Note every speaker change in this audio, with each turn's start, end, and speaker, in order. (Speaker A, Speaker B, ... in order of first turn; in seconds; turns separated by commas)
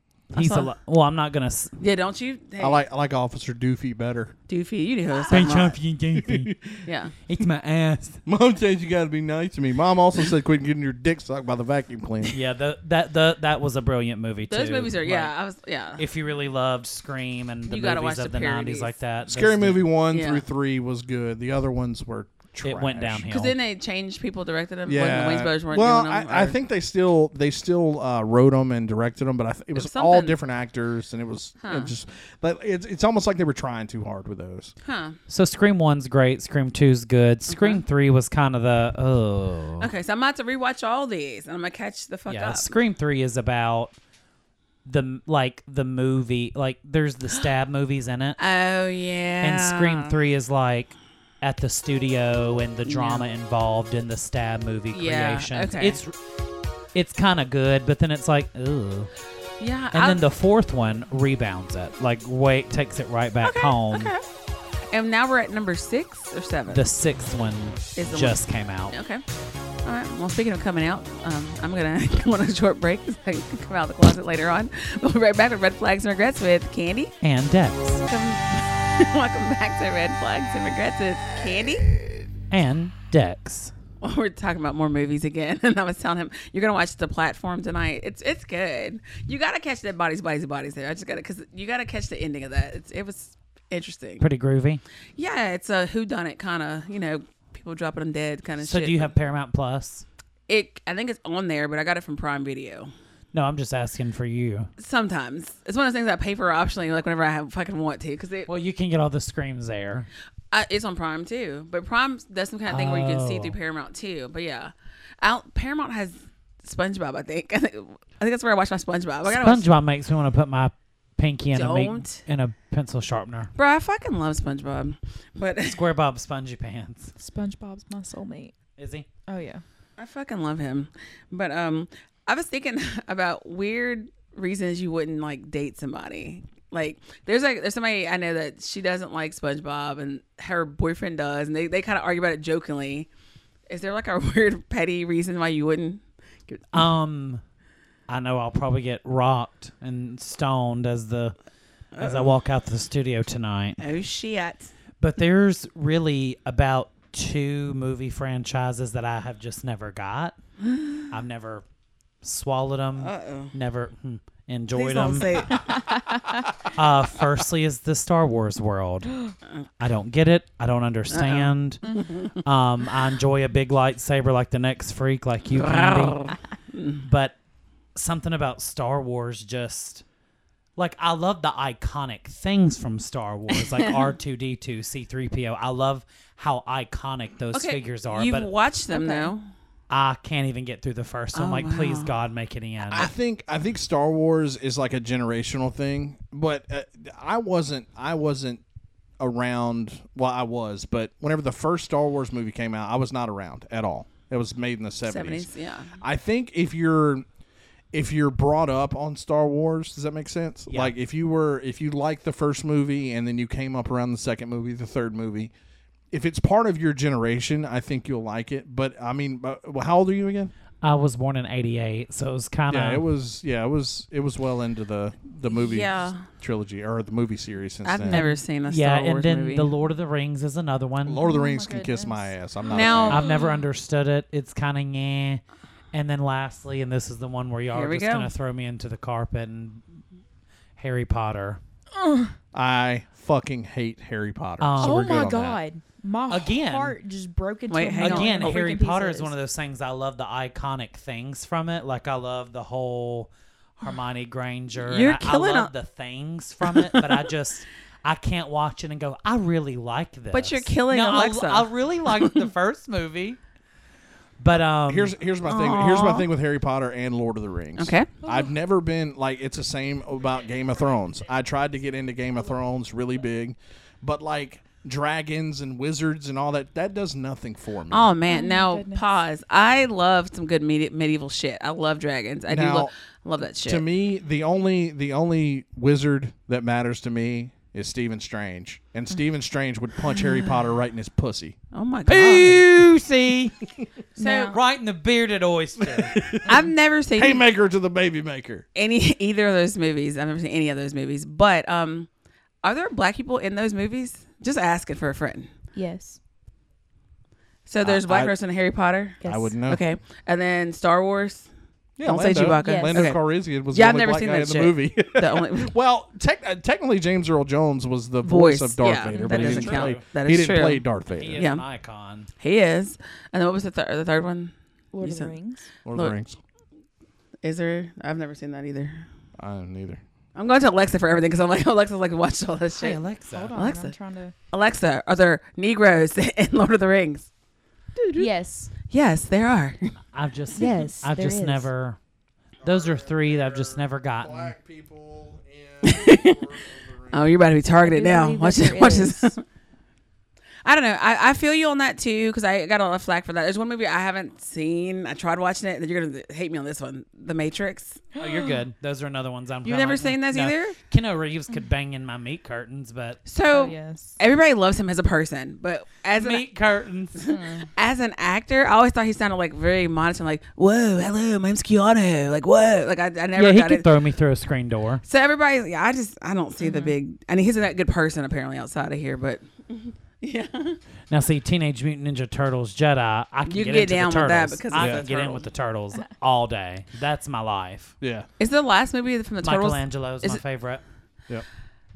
Speaker A: 0.3-0.7, Speaker B: 0.3-1.7, Speaker A: 1.8-2.8, Speaker C: 2.6-4.3, Speaker A: 4.5-5.8, Speaker B: 5.3-6.5, Speaker C: 6.2-6.6, Speaker A: 6.8-7.2, Speaker B: 7.3-8.2, Speaker C: 8.3-12.4, Speaker B: 12.3-15.3, Speaker A: 14.5-16.1, Speaker B: 16.0-19.9, Speaker A: 17.7-18.9, Speaker C: 19.3-23.3, Speaker A: 20.1-20.4, Speaker B: 22.6-23.5, Speaker A: 23.3-26.6, Speaker C: 24.9-34.7, Speaker A: 29.8-30.4, Speaker A: 31.6-31.9, Speaker A: 34.8-35.2, Speaker B: 35.3-39.9, Speaker A: 37.5-37.8, Speaker A: 39.8-42.7, Speaker B: 42.3-44.0, Speaker B: 44.9-48.4, Speaker A: 48.4-50.2, Speaker B: 49.4-56.1, Speaker A: 52.9-53.3, Speaker A: 54.9-56.0, Speaker B: 56.9-59.1, Speaker A: 59.6-60.3, Speaker B: 59.9-64.1, Speaker A: 63.4-64.2, Speaker A: 64.9-66.8, Speaker B: 66.7-69.0, Speaker A: 68.0-69.2, Speaker A: 69.8-77.2, Speaker B: 77.2-78.0, Speaker A: 78.1-82.0, Speaker B: 82.5-83.7, Speaker A: 84.0-94.2, Speaker B: 94.2-94.8, Speaker A: 95.2-99.1, Speaker B: 98.6-100.0, Speaker A: 100.5-102.9, Speaker B: 103.3-104.7, Speaker A: 104.8-108.5, Speaker B: 108.5-110.1, Speaker A: 110.5-119.7, Speaker B: 112.7-113.6, Speaker B: 119.2-123.5, Speaker A: 121.5-122.2, Speaker A: 123.6-125.8, Speaker B: 125.7-127.1, Speaker D: 127.2-128.5, Speaker B: 128.8-129.1, Speaker D: 129.3-129.6, Speaker A: 130.0-143.1, Speaker A: 143.7-146.7, Speaker B: 146.7-147.4, Speaker B: 148.1-151.3, Speaker A: 152.0-152.4, Speaker B: 152.0-153.8, Speaker A: 153.8-154.7, Speaker B: 155.0-160.4, Speaker B: 161.1-161.7, Speaker B: 162.2-165.6, Speaker A: 163.0-163.5, Speaker A: 164.7-165.8, Speaker B: 166.7-169.3, Speaker B: 169.8-176.4, Speaker A: 171.1-172.4, Speaker A: 175.5-177.0, Speaker B: 177.0-177.3, Speaker B: 177.9-180.0, Speaker B: 180.8-188.5, Speaker A: 183.5-184.1, Speaker A: 187.5-189.4, Speaker D: 188.9-189.3, Speaker B: 189.9-193.1, Speaker A: 191.3-192.1, Speaker C: 192.9-198.6, Speaker C: 199.2-205.5, Speaker A: 205.1-205.9, Speaker C: 206.0-207.2, Speaker C: 207.9-215.5, Speaker C: 216.1-220.5, Speaker B: 220.8-223.0, Speaker C: 222.7-228.3, Speaker A: 225.5-226.3, Speaker A: 227.8-229.7, Speaker B: 228.1-231.2, Speaker C: 231.0-233.2, Speaker D: 231.2-232.3, Speaker A: 232.7-233.5, Speaker B: 233.1-235.4, Speaker B: 235.9-239.8, Speaker A: 237.7-238.3, Speaker B: 240.8-241.6, Speaker D: 241.9-242.3, Speaker C: 242.5-245.6, Speaker B: 244.6-245.3, Speaker D: 244.8-249.3, Speaker B: 246.3-247.0, Speaker A: 247.7-248.6, Speaker B: 248.0-263.4, Speaker A: 254.8-255.7, Speaker A: 256.6-257.3, Speaker A: 260.3-262.4, Speaker B: 264.4-265.1, Speaker C: 264.9-278.1, Speaker A: 265.4-266.3, Speaker A: 267.8-268.1, Speaker A: 277.9-283.9, Speaker D: 278.3-279.2, Speaker C: 282.5-282.9, Speaker C: 283.6-291.6, Speaker A: 291.7-292.6, Speaker B: 292.1-293.6, Speaker D: 294.2-294.6, Speaker B: 294.2-296.3, Speaker C: 295.8-296.5, Speaker A: 296.5-297.4, Speaker C: 297.2-298.7, Speaker A: 298.8-302.1, Speaker A: 302.6-305.5, Speaker D: 305.8-306.2, Speaker A: 307.7-311.5, Speaker C: 307.8-308.3, Speaker D: 309.2-309.5, Speaker C: 309.2-309.8, Speaker C: 312.0-321.5, Speaker A: 312.0-315.7, Speaker D: 312.6-313.1, Speaker A: 318.2-321.6, Speaker D: 319.1-319.5, Speaker B: 319.3-320.0, Speaker B: 321.1-322.3, Speaker A: 322.4-325.4, Speaker D: 324.9-325.7, Speaker C: 325.9-326.4, Speaker A: 327.4-329.1, Speaker C: 329.4-330.0, Speaker A: 330.4-333.0, Speaker B: 332.7-333.6, Speaker D: 333.3-334.3, Speaker A: 333.5-333.9, Speaker A: 334.5-337.3, Speaker D: 338.1-338.7, Speaker A: 338.9-339.9, Speaker B: 340.1-342.0, Speaker D: 340.6-341.7, Speaker B: 342.6-344.5, Speaker C: 342.6-347.4, Speaker A: 345.8-346.4, Speaker A: 347.1-349.4, Speaker D: 347.8-349.4, Speaker A: 350.6-358.1, Speaker B: 358.2-363.2, Speaker D: 358.2-358.6, Speaker A: 359.6-360.8, Speaker A: 363.3-366.5, Speaker D: 363.5-364.2, Speaker B: 366.2-367.3, Speaker D: 367.2-367.7, Speaker A: 367.8-373.9, Speaker B: 373.4-375.0, Speaker A: 375.1-380.8, Speaker D: 376.6-376.9, Speaker B: 381.1-387.9, Speaker A: 383.5-385.5, Speaker C: 384.8-385.1, Speaker C: 388.0-388.3, Speaker A: 388.4-390.4, Speaker B: 389.4-390.8